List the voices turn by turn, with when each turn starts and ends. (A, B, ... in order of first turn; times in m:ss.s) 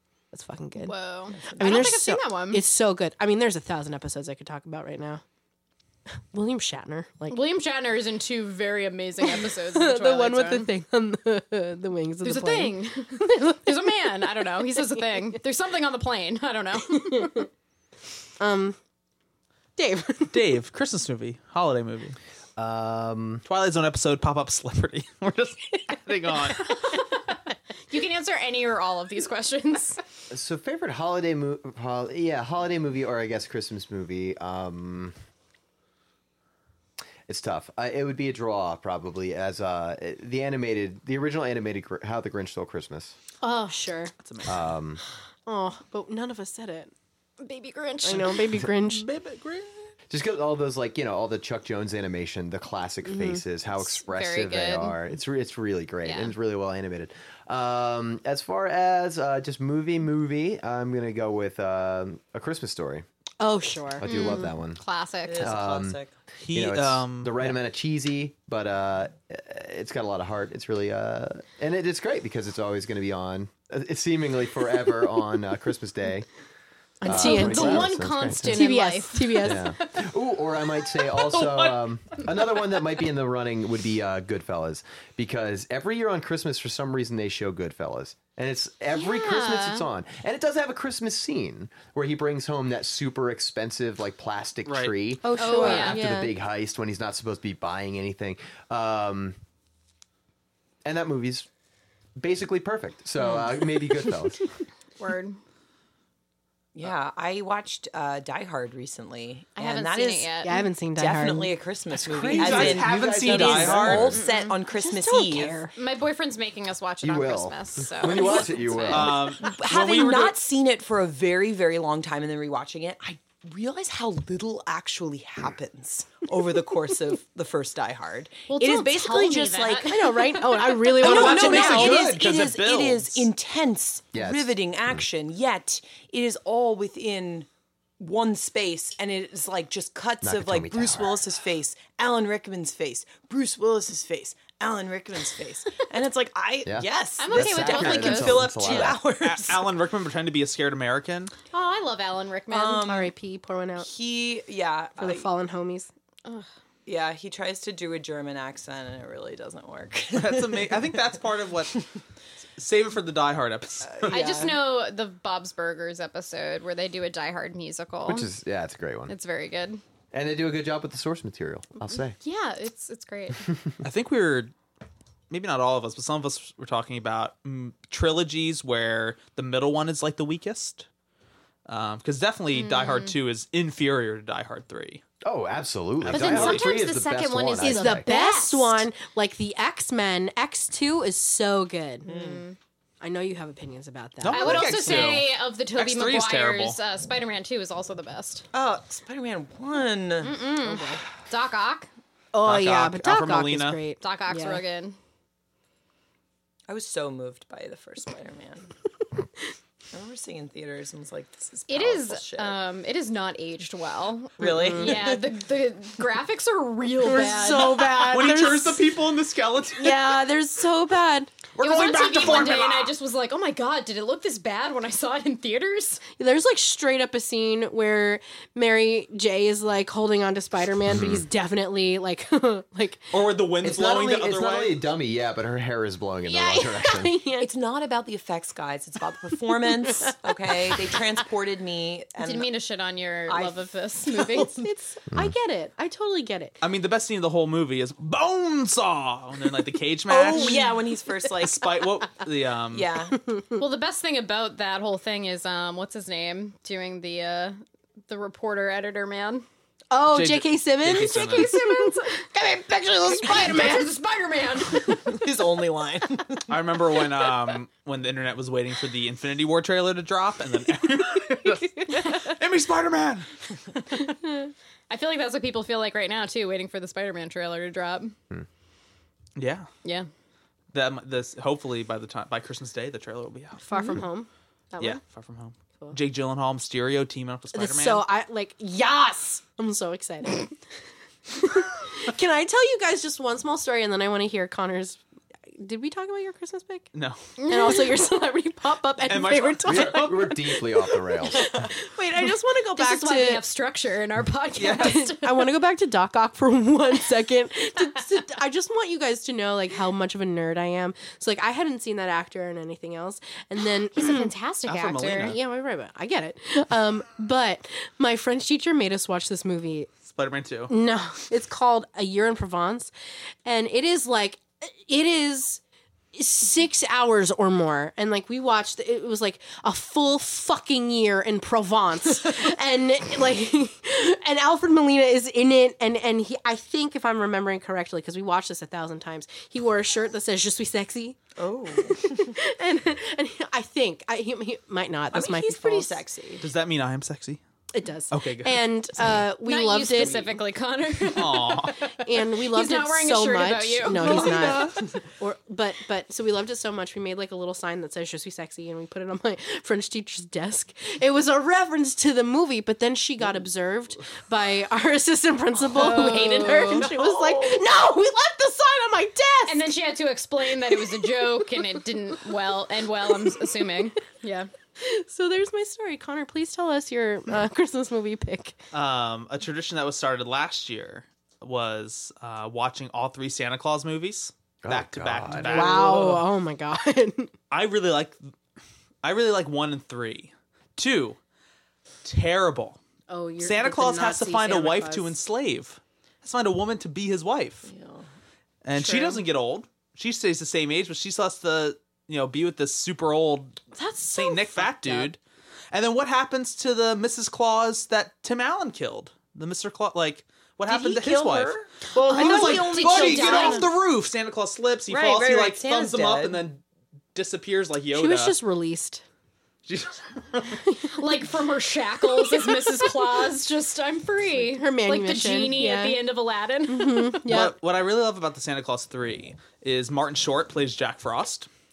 0:00.3-0:01.0 A
0:00.8-0:02.6 B
0:01.4-0:01.9 C
0:01.5-0:05.2 A
0:06.3-0:07.4 A
0:07.3-0:10.7 B
0:09.2-0:13.9 A
0:12.2-0:17.5 B
0:16.9-0:17.5 A
0:18.4-0:18.8 A
0:19.8-0:20.4 A
0:20.3-0:22.2 D
0:22.6-0:23.4 E
0:23.4-0:26.7 D
0:26.7-0:27.1 B
0:27.9-0:30.0 B
0:30.3-0:35.1 E
0:37.3-0:43.2 E
0:43.4-0:44.1 A
0:44.2-0:44.7 D
0:44.5-0:45.0 E
0:45.5-0:46.9 A
0:47.4-0:48.4 B
0:48.0-0:49.1 A
0:48.8-0:49.7 D
0:50.1-1:03.0 E
0:53.1-0:53.4 A
0:53.8-0:55.0 B
0:56.0-0:56.4 B
1:03.4-1:04.5 A
1:04.0-1:04.8 E
1:04.1-1:05.6 B
1:05.2-1:06.1 C
1:05.4-1:06.0 E
1:06.4-1:07.4 D
1:06.5-1:16.3 E
1:17.0-1:17.9 A
1:17.0-1:20.1 B
1:17.0-1:18.7 E
1:18.5-1:19.7 A
1:19.4-1:39.4 E
1:21.2-1:21.8 D
1:28.9-1:29.9 B
1:34.7-1:34.9 D
1:35.2-1:36.3 A
1:35.4-1:36.0 B
1:40.8-1:41.5 E
1:42.2-1:44.4 E
1:45.0-1:45.4 B
1:46.8-1:55.6 C
1:49.6-1:50.6 B
1:50.4-1:51.6 A
1:52.0-1:54.2 E
1:52.1-1:54.2 D
1:54.1-1:54.6 B
1:54.8-1:55.7 A
1:55.8-1:59.1 B
1:57.0-1:59.2 E
1:58.9-2:00.4 D
1:58.9-2:09.9 C
2:08.5-2:10.4 B
2:09.8-2:12.1 A
2:10.9-2:17.5 C
2:11.0-2:13.3 D
2:14.1-2:14.5 E
2:18.0-2:29.7 C
2:20.2-2:21.2 E
2:26.6-2:29.0 E
2:27.2-2:28.5 B
2:28.6-2:31.3 D
2:31.5-2:32.9 B
2:32.5-2:33.1 C
2:32.6-2:33.9 A
2:33.8-2:35.3 C
2:35.0-2:35.9 A
2:36.9-2:40.9 C
2:40.1-2:41.8 D
2:42.6-2:44.2 D
2:43.8-2:44.5 C
2:44.1-2:48.3 B
2:48.1-2:49.1 E
2:49.1-2:49.8 B
2:50.1-2:52.2 E
2:52.1-2:53.5 B
2:53.5-2:53.7 E
2:53.8-2:54.5 D
2:55.3-3:00.9 D
3:01.7-3:05.0 D
3:02.5-3:03.2 B
3:05.2-3:08.1 E
3:06.0-3:06.7 D
3:06.1-3:08.9 B
3:07.6-3:12.1 A
3:12.1-3:12.5 C
3:12.1-3:12.6 B
3:13.0-3:15.1 A
3:14.2-3:16.8 D
3:14.3-3:18.4 B
3:18.5-3:20.4 C
3:20.2-3:21.9 B
3:20.6-3:21.0 A
3:22.3-3:24.6 A
3:22.4-3:23.8 D
3:24.0-3:25.0 B
3:26.7-3:28.7 C
3:29.9-3:32.6 C
3:31.7-3:38.0 B
3:34.4-3:35.3 C
3:34.4-3:35.0 A
3:37.0-3:38.9 A
3:37.8-3:40.2 D
3:39.8-3:41.3 A
3:41.6-3:42.9 D
3:41.6-3:46.0 B
3:46.2-3:53.1 A
3:50.9-3:51.3 E
3:53.1-3:54.8 D
3:53.6-3:57.2 E
3:56.3-3:57.5 A
3:56.4-3:56.7 B
3:57.4-4:02.5 C
3:59.5-4:01.0 A
4:02.2-4:04.6 B
4:03.3-4:04.6 C
4:04.6-4:06.6 A
4:06.6-4:10.6 D
4:10.1-4:11.7 C
4:11.4-4:12.9 D
4:12.7-4:13.2 C
4:13.3-4:13.6 A
4:13.6-4:19.5 B
4:19.9-4:23.9 A
4:20.1-4:21.6 D
4:21.0-4:22.3 B
4:23.1-4:25.2 B
4:24.9-4:26.5 C
4:26.5-4:33.3 D
4:34.9-4:38.2 B
4:39.4-4:39.7 D
4:40.7-4:43.6 D
4:43.7-4:45.0 A
4:44.8-4:48.0 D
4:47.5-4:50.6 A
4:51.3-4:55.0 A
4:55.6-4:56.9 A
4:56.9-4:57.2 D
4:57.4-4:58.0 B
4:57.4-5:03.4 A
4:59.0-5:00.3 D
4:59.7-5:01.5 E
5:02.7-5:05.5 B
5:04.6-5:05.0 D
5:04.7-5:14.3 A
5:14.0-5:15.4 B
5:14.7-5:15.4 D
5:15.2-5:19.9 A
5:20.1-5:20.7 D
5:20.7-5:22.9 A
5:23.4-5:25.6 A
5:26.1-5:46.0 A
5:41.4-5:42.4 C
5:45.1-5:46.4 C
5:46.4-5:47.4 D
5:47.7-5:50.3 A
5:48.1-5:48.6 D
5:49.4-5:54.7 B
5:51.1-5:51.8 D
5:51.9-6:09.7 A
5:53.9-5:54.8 D
6:05.7-6:07.0 B
6:09.5-6:14.5 B
6:14.8-6:18.6 A
6:18.7-6:26.3 D
6:24.6-6:25.8 E
6:25.4-6:27.3 A
6:27.5-6:28.2 D
6:29.0-6:31.2 D
6:32.0-6:32.8 D
6:33.1-6:35.2 A
6:33.4-6:37.7 D
6:37.6-6:38.1 C
6:38.6-6:45.2 D
6:38.8-6:39.2 B
6:43.8-6:45.1 A
6:45.7-6:56.6 D
6:50.7-6:53.7 C
6:52.1-6:53.7 B
6:54.9-6:56.4 C
6:57.2-6:58.4 D
6:57.9-6:59.0 A
6:59.7-7:00.6 D
7:00.9-7:07.3 B
7:02.3-7:03.0 A
7:04.4-7:06.1 A
7:06.7-7:07.5 A
7:07.3-7:11.5 D